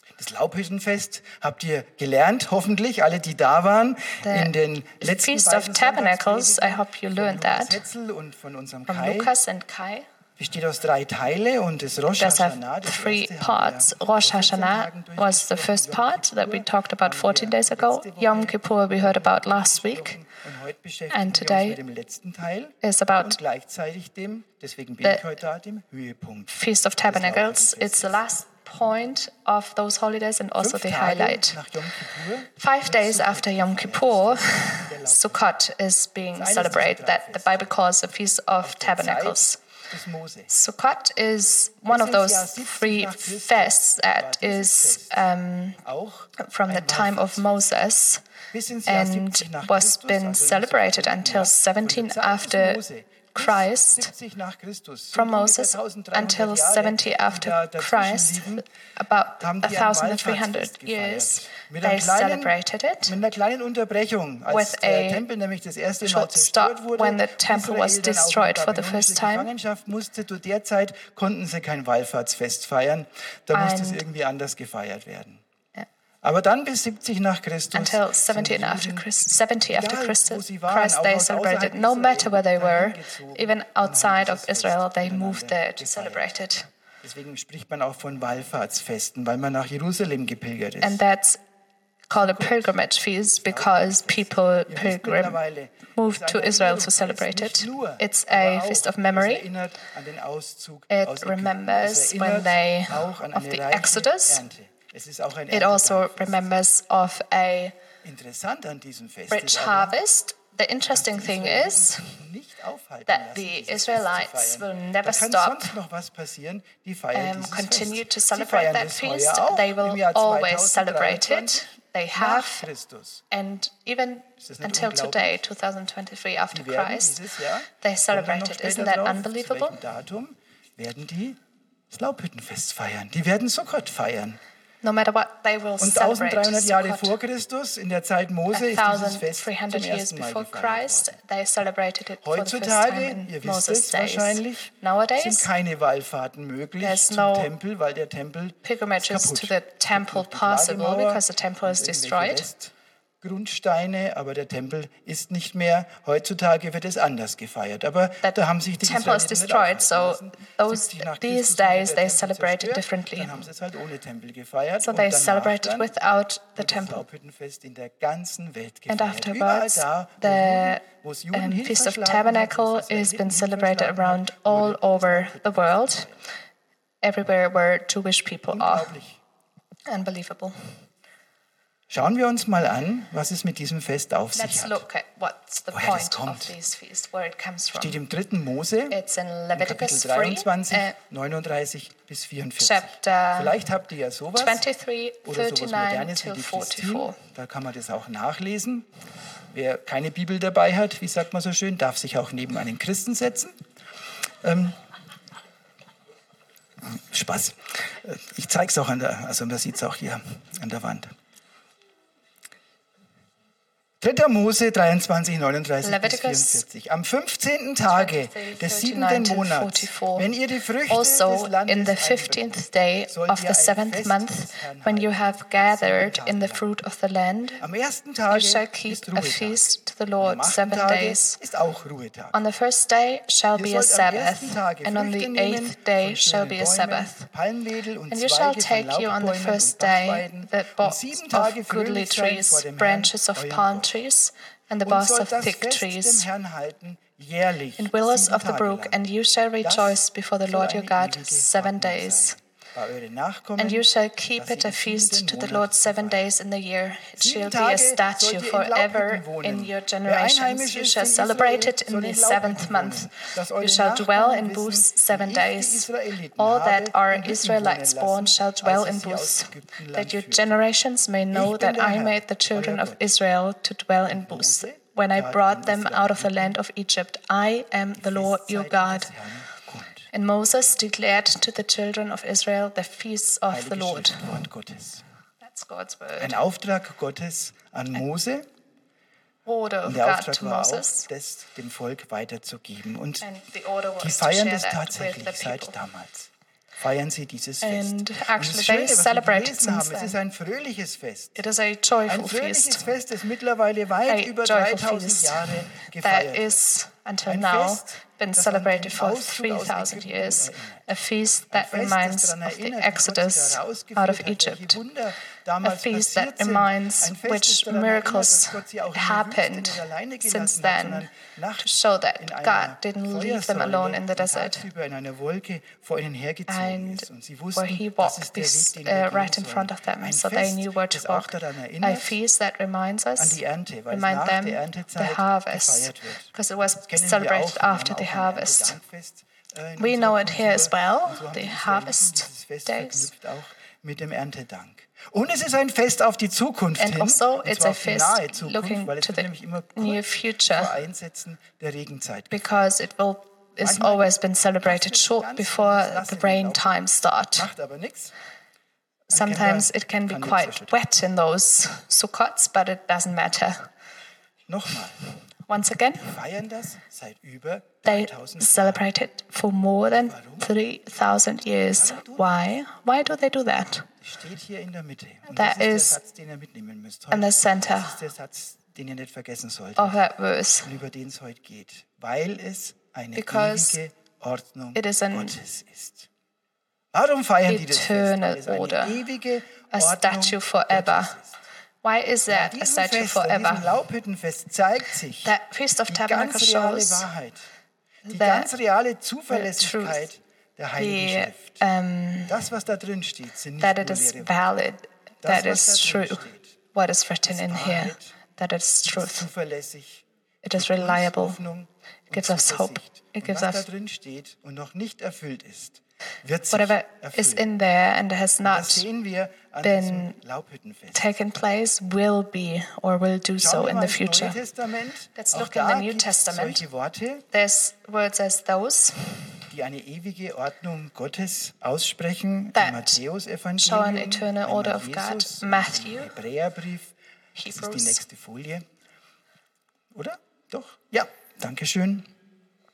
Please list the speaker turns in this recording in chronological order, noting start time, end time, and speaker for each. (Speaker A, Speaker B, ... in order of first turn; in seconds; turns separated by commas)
Speaker A: 0.2-9.3, Speaker B: 4.2-7.8, Speaker B: 8.9-10.1, Speaker A: 10.4-26.5, Speaker B: 12.2-20.2, Speaker B: 21.1-21.8, Speaker B: 22.8-23.4, Speaker B: 26.5-31.6, Speaker A: 27.0-28.2, Speaker A: 30.6-35.4, Speaker B: 32.5-39.6, Speaker A: 36.3-37.7, Speaker A: 38.6-40.5, Speaker B: 40.5-45.8, Speaker A: 41.9-45.2, Speaker A: 45.8-47.5, Speaker B: 46.4-48.2, Speaker A: 48.5-58.6, Speaker B: 48.9-52.8, Speaker B: 53.3-54.1, Speaker B: 55.1-63.1, Speaker A: 59.4-62.5, Speaker A: 63.0-75.4, Speaker B: 64.5-65.2, Speaker B: 66.0-69.5, Speaker B: 73.5-74.0, Speaker A: 76.2-79.1, Speaker B: 77.7-86.7, Speaker A: 79.7-86.3, Speaker A: 87.0-91.0, Speaker B: 90.8-91.4, Speaker B: 92.1-99.5, Speaker A: 92.1-92.8, Speaker A: 93.4-106.5, Speaker B: 100.9-104.4, Speaker B: 105.5-107.7, Speaker A: 108.0-110.0, Speaker B: 109.3-112.2, Speaker A: 110.9-123.2, Speaker B: 113.1-115.8, Speaker B: 117.1-122.7, Speaker B: 123.3-127.2, Speaker A: 124.4-125.4, Speaker A: 126.5-131.4, Speaker B: 127.8-129.8, Speaker A: 131.9-134.4, Speaker B: 134.8-137.2, Speaker A: 135.8-141.2, Speaker B: 138.5-145.5, Speaker A: 142.2-165.9, Speaker B: 146.8-147.5, Speaker B: 148.6-152.5, Speaker B: 158.2-163.4, Speaker B: 164.8-167.0, Speaker A: 166.6-176.2, Speaker B: 168.9-176.1, Speaker B: 177.0-178.9, Speaker A: 178.5-179.2, Speaker B: 179.9-180.8, Speaker A: 181.9-184.8, Speaker B: 184.3-188.0, Speaker A: 185.7-186.5, Speaker A: 187.7-189.0, Speaker B: 188.9-190.9, Speaker A: 189.5-194.6, Speaker B: 192.6-193.6, Speaker B: 194.3-197.2, Speaker A: 195.2-198.9, Speaker A: 199.5-203.5, Speaker A: 204.4-204.8, Speaker A: 206.8-211.1, Speaker A: 214.0-226.7, Speaker B: 215.8-216.6, Speaker B: 217.8-220.3, Speaker B: 220.9-227.6, Speaker A: 227.6-229.6, Speaker B: 228.3-231.3, Speaker A: 230.2-232.4, Speaker B: 232.3-237.2, Speaker A: 233.5-243.9, Speaker B: 238.1-246.3, Speaker A: 244.8-249.0, Speaker B: 247.8-252.3, Speaker A: 249.6-253.8, Speaker B: 253.6-279.1, Speaker A: 254.3-256.3, Speaker A: 257.2-270.6, Speaker A: 271.3-273.1, Speaker A: 274.1-276.6, Speaker A: 277.9-280.1, Speaker B: 280.1-284.4, Speaker A: 283.5-285.0, Speaker B: 285.4-286.4, Speaker A: 286.2-288.5, Speaker B: 289.4-291.1, Speaker A: 289.8-293.2, Speaker B: 293.2-295.7, Speaker A: 294.0-301.4, Speaker B: 297.6-300.2, Speaker B: 301.4-302.8, Speaker A: 302.1-306.6, Speaker B: 304.1-314.8, Speaker A: 307.2-310.8, Speaker A: 311.5-332.1, Speaker B: 315.6-321.1, Speaker B: 321.6-324.6, Speaker B: 326.5-338.8, Speaker A: 333.2-336.3, Speaker A: 336.9-352.6, Speaker B: 339.8-343.1, Speaker B: 346.8-350.7, Speaker B: 352.3-357.5, Speaker A: 353.6-354.1, Speaker A: 354.6-358.1, Speaker B: 359.1-363.7, Speaker A: 359.1-360.8, Speaker A: 364.5-365.0, Speaker B: 365.5-366.1, Speaker A: 366.0-368.8, Speaker B: 367.8-373.9, Speaker A: 369.9-370.5, Speaker A: 371.7-372.3, Speaker A: 374.0-380.0, Speaker B: 375.2-376.0, Speaker B: 377.1-378.0, Speaker B: 379.8-380.7, Speaker A: 380.6-386.1, Speaker B: 383.1-383.8, Speaker B: 384.7-385.4, Speaker A: 386.9-391.3, Speaker B: 387.5-389.0, Speaker B: 389.7-391.2, Speaker B: 391.8-393.7, Speaker A: 392.3-395.3, Speaker B: 395.2-397.1, Speaker A: 395.9-397.5, Speaker B: 398.1-398.5, Speaker A: 398.1-401.6, Speaker B: 399.3-400.1, Speaker B: 400.8-402.3, Speaker A: 402.3-404.4, Speaker B: 403.6-409.2, Speaker A: 405.2-406.5, Speaker A: 407.3-408.1, Speaker A: 408.9-417.4, Speaker B: 410.4-411.4, Speaker B: 412.1-413.6, Speaker B: 416.5-418.8, Speaker A: 418.4-421.0, Speaker B: 419.6-420.1, Speaker B: 420.9-424.4, Speaker A: 423.4-427.2, Speaker B: 425.1-426.6, Speaker B: 427.3-429.4, Speaker A: 429.5-436.9, Speaker B: 432.5-433.0, Speaker B: 433.6-436.1, Speaker B: 437.4-438.0, Speaker A: 437.4-438.6, Speaker A: 439.9-442.1